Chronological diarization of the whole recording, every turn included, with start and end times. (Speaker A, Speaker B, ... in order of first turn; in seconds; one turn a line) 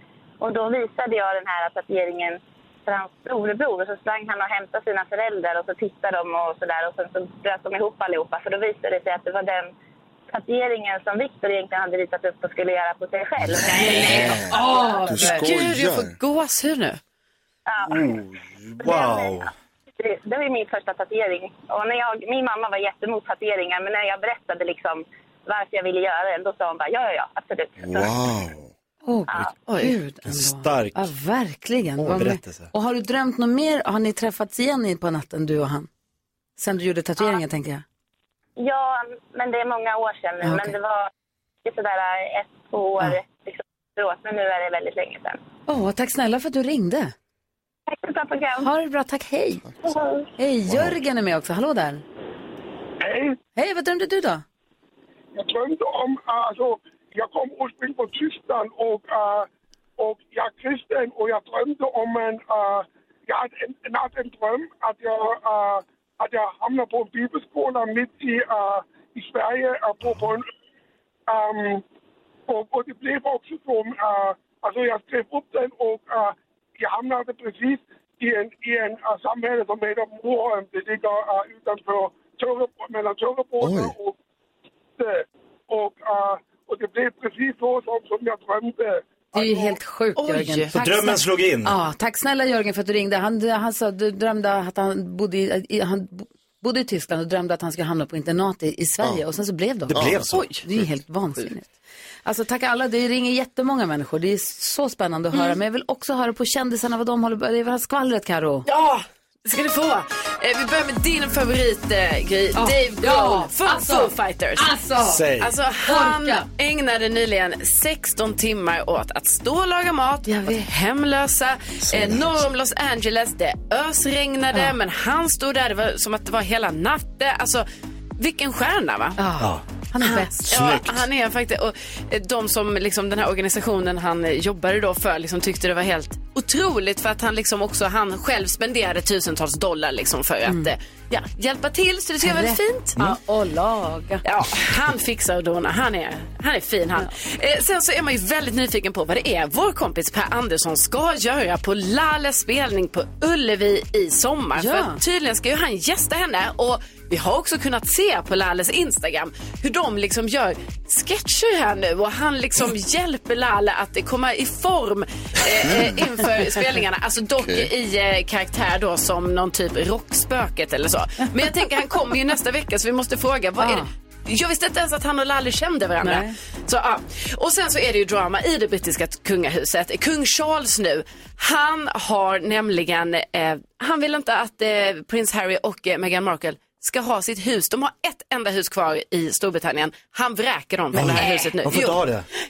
Speaker A: 0.4-9.7
Speaker A: 10.3-14.2
Speaker B: 13.6-16.1
Speaker C: 13.7-17.0
Speaker D: 13.7-15.4
Speaker A: 17.7-18.1
Speaker E: 18.6-19.5
Speaker A: 18.8-19.4
Speaker A: 20.0-28.2
Speaker B: 27.8-28.7
Speaker D: 29.0-35.9
Speaker C: 29.7-29.9
Speaker E: 30.2-31.1
Speaker E: 32.0-32.7
Speaker D: 36.6-37.8
Speaker A: 38.6-41.1
Speaker D: 40.4-40.8
Speaker A: 41.6-45.4
Speaker D: 45.7-47.1
Speaker A: 47.9-48.7
Speaker D: 48.6-49.6
Speaker A: 49.8-50.2
Speaker D: 50.4-52.0
Speaker B: 50.7-50.9
Speaker F: 53.0-53.4
Speaker D: 53.5-54.4
Speaker F: 55.3-70.5
Speaker F: 71.3-71.8
Speaker F: 72.5-84.2
Speaker B: 83.6-83.9
Speaker F: 85.0-89.8
Speaker D: 89.3-101.7
Speaker C: 90.2-90.7
Speaker E: 90.7-91.7
Speaker E: 99.9-100.5
Speaker B: 99.9-100.3
Speaker D: 102.2-108.7
Speaker C: 108.7-114.8
Speaker D: 112.5-115.2
Speaker E: 115.0-115.5
Speaker C: 115.4-127.7
Speaker D: 115.8-116.5
Speaker D: 120.2-120.6
Speaker B: 121.8-122.4
Speaker C: 128.2-129.2
Speaker D: 129.2-130.5
Speaker E: 129.4-129.6
Speaker C: 130.0-142.9
Speaker E: 130.5-131.1
Speaker D: 140.4-140.7
Speaker D: 142.2-144.2
Speaker C: 144.2-192.1
Speaker D: 154.6-155.0
Speaker B: 165.7-165.9
Speaker B: 167.4-167.7
Speaker D: 173.6-173.9
Speaker D: 176.0-176.3
Speaker E: 190.9-192.3